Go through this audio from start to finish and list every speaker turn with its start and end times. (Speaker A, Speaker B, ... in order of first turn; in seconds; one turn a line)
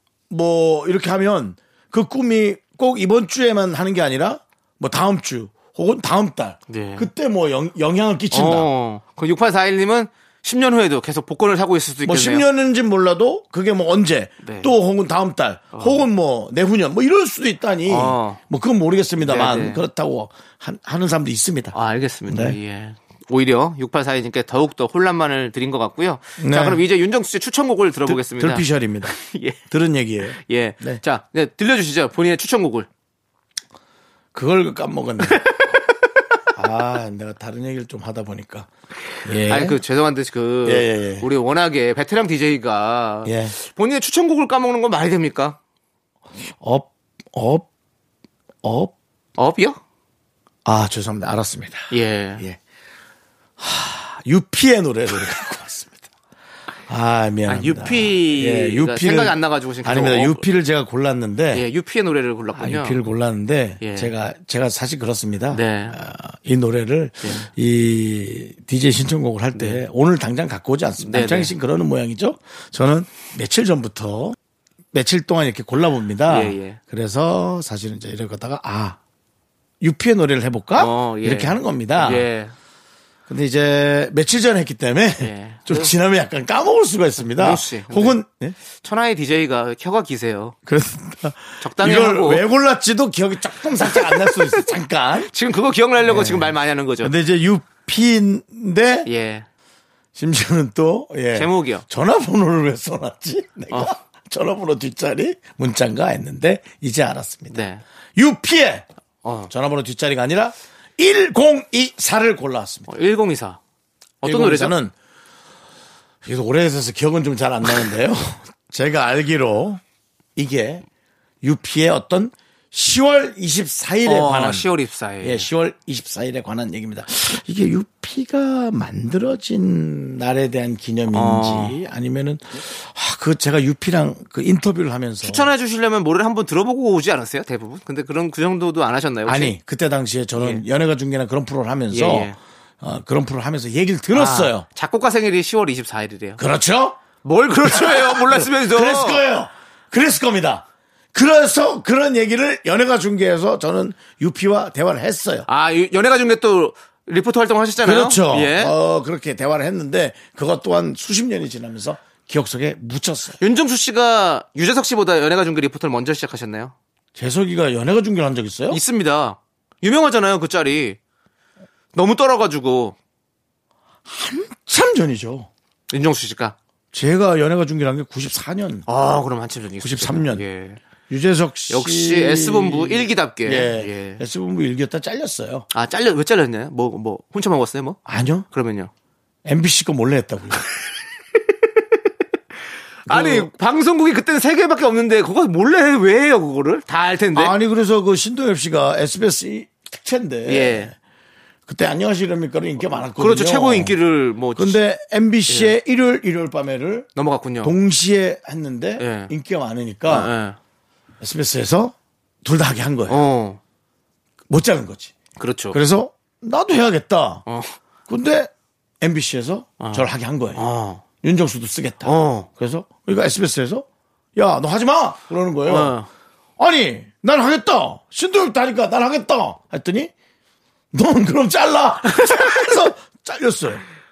Speaker A: 0.3-8.7
Speaker B: 6.7-7.1
Speaker B: 8.3-12.5
Speaker A: 12.1-21.8
Speaker B: 14.4-14.7
Speaker B: 15.8-16.0
Speaker B: 17.9-18.4
Speaker B: 19.2-19.8
Speaker B: 21.7-29.6
Speaker A: 22.3-22.6
Speaker A: 26.4-26.8
Speaker A: 28.1-29.2
Speaker A: 29.7-31.0
Speaker B: 30.3-32.9
Speaker A: 34.3-35.4
Speaker B: 35.2-35.8
Speaker A: 36.5-38.7
Speaker A: 39.2-39.8
Speaker B: 39.4-45.6
Speaker A: 40.6-41.3
Speaker A: 43.3-43.5
Speaker A: 46.6-47.7
Speaker A: 48.6-48.9
Speaker B: 49.4-49.8
Speaker A: 50.6-52.6
Speaker B: 51.9-52.4
Speaker A: 53.6-56.0
Speaker A: 56.9-61.6
Speaker B: 57.5-60.4
Speaker B: 61.5-63.0
Speaker A: 62.5-74.4
Speaker B: 63.8-64.1
Speaker B: 65.5-66.0
Speaker B: 67.2-67.5
Speaker B: 69.5-69.8
Speaker B: 71.0-71.5
Speaker A: 74.9-79.0
Speaker B: 76.3-76.8
Speaker A: 79.8-82.3
Speaker B: 80.8-82.5
Speaker A: 83.3-88.6
Speaker B: 85.2-85.9
Speaker B: 87.4-88.2
Speaker B: 88.8-90.6
Speaker A: 90.7-95.3
Speaker B: 91.6-92.4
Speaker B: 93.8-94.6
Speaker B: 95.3-97.1
Speaker A: 96.0-99.1
Speaker B: 99.1-99.5
Speaker A: 100.2-108.9
Speaker B: 101.3-101.8
Speaker B: 107.5-107.8
Speaker B: 109.2-109.5
Speaker A: 109.5-112.9
Speaker B: 112.9-113.6
Speaker B: 114.2-114.7
Speaker A: 114.2-114.9
Speaker A: 116.2-119.8
Speaker A: 120.4-120.8
Speaker A: 121.4-124.7
Speaker B: 124.1-125.5
Speaker A: 125.2-135.5
Speaker B: 131.1-131.8
Speaker B: 135.2-139.6
Speaker A: 139.2-144.7
Speaker B: 140.4-140.7
Speaker B: 141.9-142.4
Speaker B: 144.1-146.4
Speaker A: 146.4-147.0
Speaker B: 147.2-149.2
Speaker A: 147.6-155.5
Speaker B: 155.5-158.7
Speaker A: 157.8-163.4
Speaker B: 163.4-166.7
Speaker A: 167.2-168.8
Speaker B: 168.7-171.0
Speaker B: 171.9-172.9
Speaker A: 174.1-175.5
Speaker B: 175.9-176.6
Speaker A: 176.9-178.9
Speaker B: 178.9-180.8
Speaker A: 179.8-180.4
Speaker A: 181.1-185.7
Speaker B: 181.7-184.2
Speaker B: 185.7-188.0
Speaker A: 188.1-188.5
Speaker B: 188.5-188.9
Speaker A: 189.4-190.7
Speaker A: 193.1-193.5
Speaker B: 193.1-197.5
Speaker A: 197.3-200.9
Speaker B: 200.5-200.9
Speaker A: 201.7-204.0
Speaker B: 203.2-204.8
Speaker A: 204.5-207.1
Speaker B: 205.5-205.8
Speaker B: 207.2-207.8
Speaker A: 207.6-210.3
Speaker B: 209.0-209.3
Speaker B: 210.1-210.6
Speaker A: 211.2-213.2
Speaker B: 213.1-213.6
Speaker A: 214.5-215.1
Speaker B: 215.4-215.8
Speaker A: 215.7-217.4
Speaker B: 217.5-217.8
Speaker A: 218.1-220.6
Speaker B: 219.8-221.0
Speaker A: 221.2-223.8
Speaker B: 222.0-222.5
Speaker A: 224.4-226.0
Speaker B: 225.7-226.1
Speaker A: 226.6-230.1
Speaker A: 230.9-233.8
Speaker B: 232.2-232.6